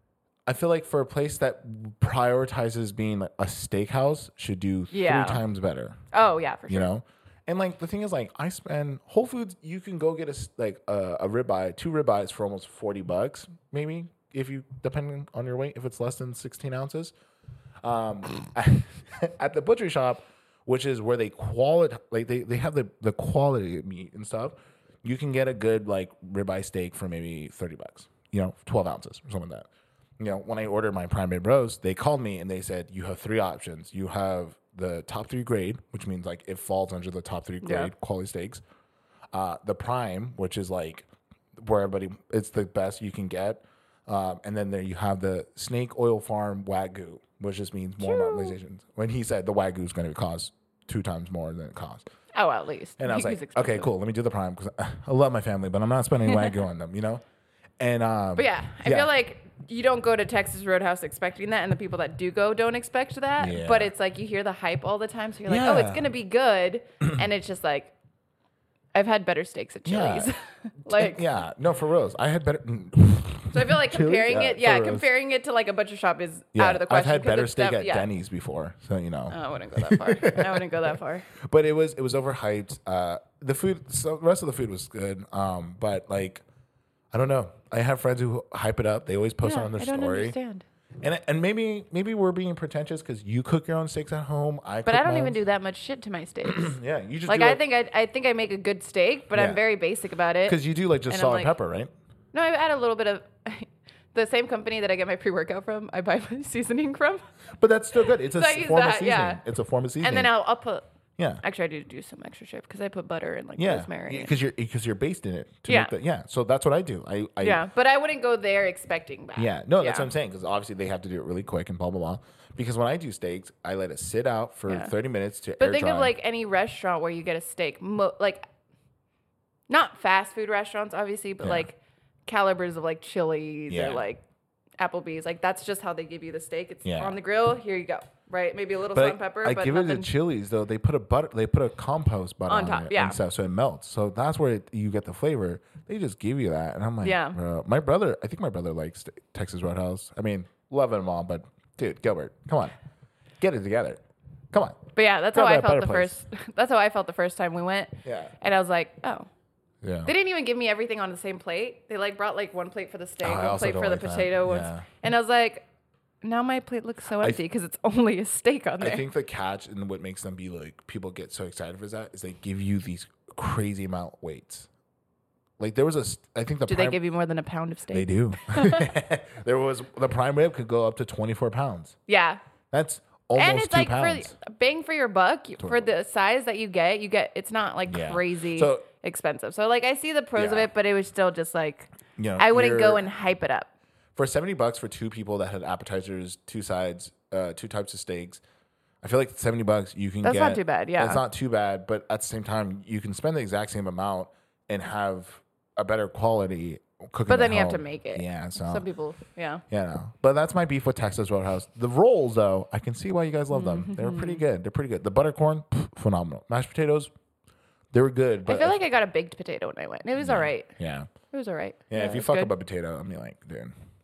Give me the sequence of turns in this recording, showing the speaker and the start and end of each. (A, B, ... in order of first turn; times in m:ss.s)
0:00.5-0:06.0 A
0:04.9-0:05.4 B
0:06.1-0:06.9 B
0:06.7-0:17.1 A
0:17.8-0:29.7 A
0:30.2-0:38.6 A
0:37.6-0:37.9 B
0:39.3-0:52.1 A
0:48.0-0:48.6 B
0:52.3-0:53.9 B
0:53.0-0:57.2 A
0:57.8-0:59.1 A
0:58.4-1:07.9 B
1:03.4-1:03.9 A
1:05.5-1:06.1 A
1:08.9-1:11.2 B
1:09.8-1:10.3 A
1:10.8-1:15.1 A
1:13.5-1:18.1 B
1:16.6-1:20.7 A
1:19.3-1:21.3 B
1:21.4-1:26.4 A
1:27.1-1:30.4 A
1:29.4-1:30.6 B
1:31.0-1:35.4 A
1:34.9-1:41.5 B
1:36.5-1:37.6 A
1:39.3-1:39.6 A
1:40.4-1:41.9 A
1:42.3-1:47.2 B
1:47.6-1:50.3 A
1:48.4-1:49.4 B
1:50.0-1:50.8 B
1:51.4-1:54.3 B
1:53.6-1:57.6 A
1:55.7-1:55.9 B
1:57.4-2:00.1 B
1:59.4-2:06.1 A
2:05.6-2:08.5 B
2:09.7-2:14.2 B
2:13.7-2:14.1 A
2:14.8-2:20.1 B
2:16.8-2:17.2 A
2:18.9-2:32.8 A
2:22.5-2:23.2 B
2:27.0-2:27.4 B
2:33.4-2:34.0 A
2:34.5-2:36.1 A
2:35.0-2:39.3 B
2:38.0-2:38.3 A
2:39.8-2:40.1 A
2:40.1-2:45.7 B
2:43.2-2:44.9 A
2:46.2-2:49.1 B
2:48.8-2:54.7 A
2:55.6-2:57.0 A
2:56.7-2:58.9 B
2:57.9-3:02.0 A
3:02.1-3:02.4 B
3:02.7-3:04.3 A
3:03.4-3:13.7 B
3:05.6-3:05.9 A
3:07.9-3:08.9 A
3:10.4-3:10.7 A
3:12.2-3:13.0 A
3:14.2-3:18.4 A
3:19.0-3:28.9 A
3:20.2-3:21.2 B
3:27.3-3:29.6 B
3:29.7-3:37.1 A
3:33.5-3:34.4 B
3:37.9-3:38.8 A
3:38.5-3:42.5 B
3:40.2-3:41.1 A
3:41.9-3:43.7 A